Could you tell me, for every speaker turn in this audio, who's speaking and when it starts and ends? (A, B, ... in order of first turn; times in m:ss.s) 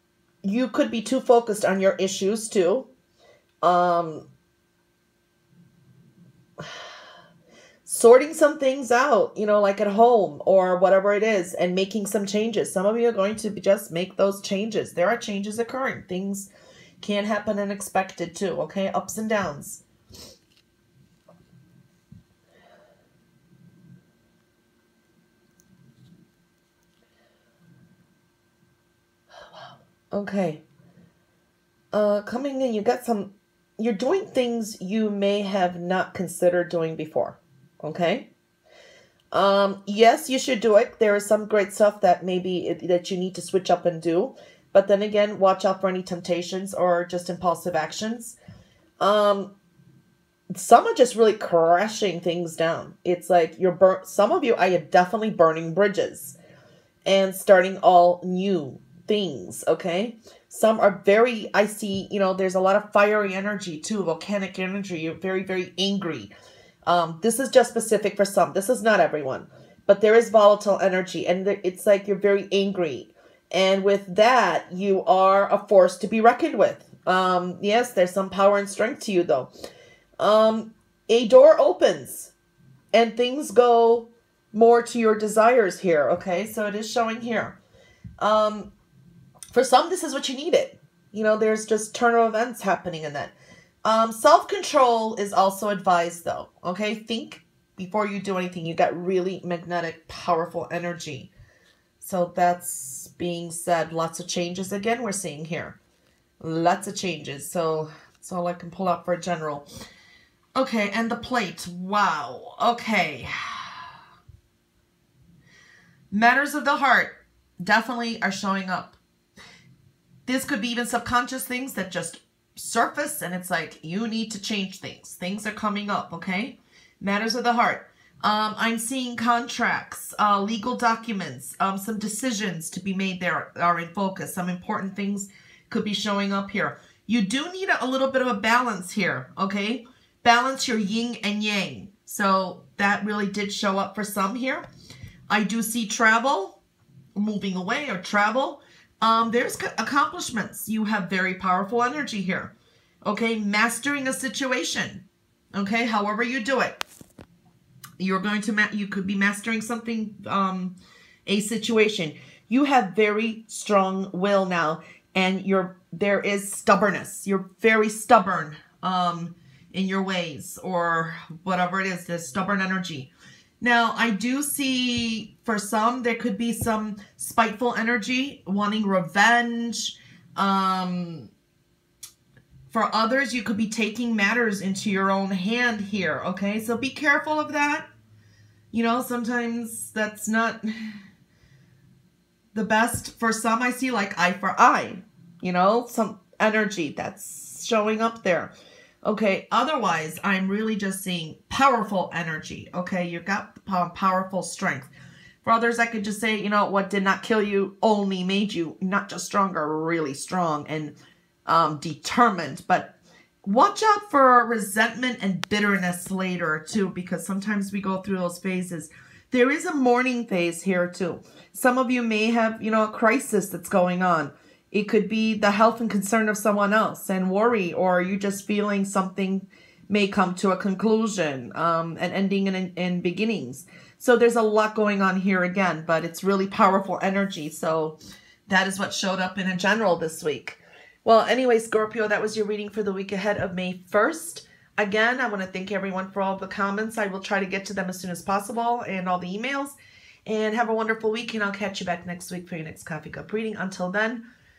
0:00.4-0:02.9 A
0:03.6-0:04.3 A
0:07.8-0:16.5 A
0:17.0-0:19.8 A
0:30.1-0:30.6 A
0:31.9-0:38.3 A
0:39.3-0:48.4 A
0:49.0-0:49.6 A
0:50.5-0:56.4 A
0:57.0-1:06.3 A
1:06.8-1:19.5 A
1:20.2-1:22.3 A
1:22.9-1:27.6 A
1:28.2-1:28.7 A
1:29.5-1:33.3 A
1:33.8-1:41.3 A
1:42.0-1:45.8 A
1:46.4-1:49.7 A
1:50.6-1:53.8 A
1:56.1-1:59.0 A
2:00.3-2:24.7 A
2:25.3-2:26.6 A
2:27.2-2:36.8 A
2:38.0-2:53.1 A
2:53.6-3:01.3 A
3:02.7-3:07.9 A
3:08.7-3:11.0 A
3:12.5-3:24.9 A
3:25.4-3:31.0 A
3:31.5-4:14.2 A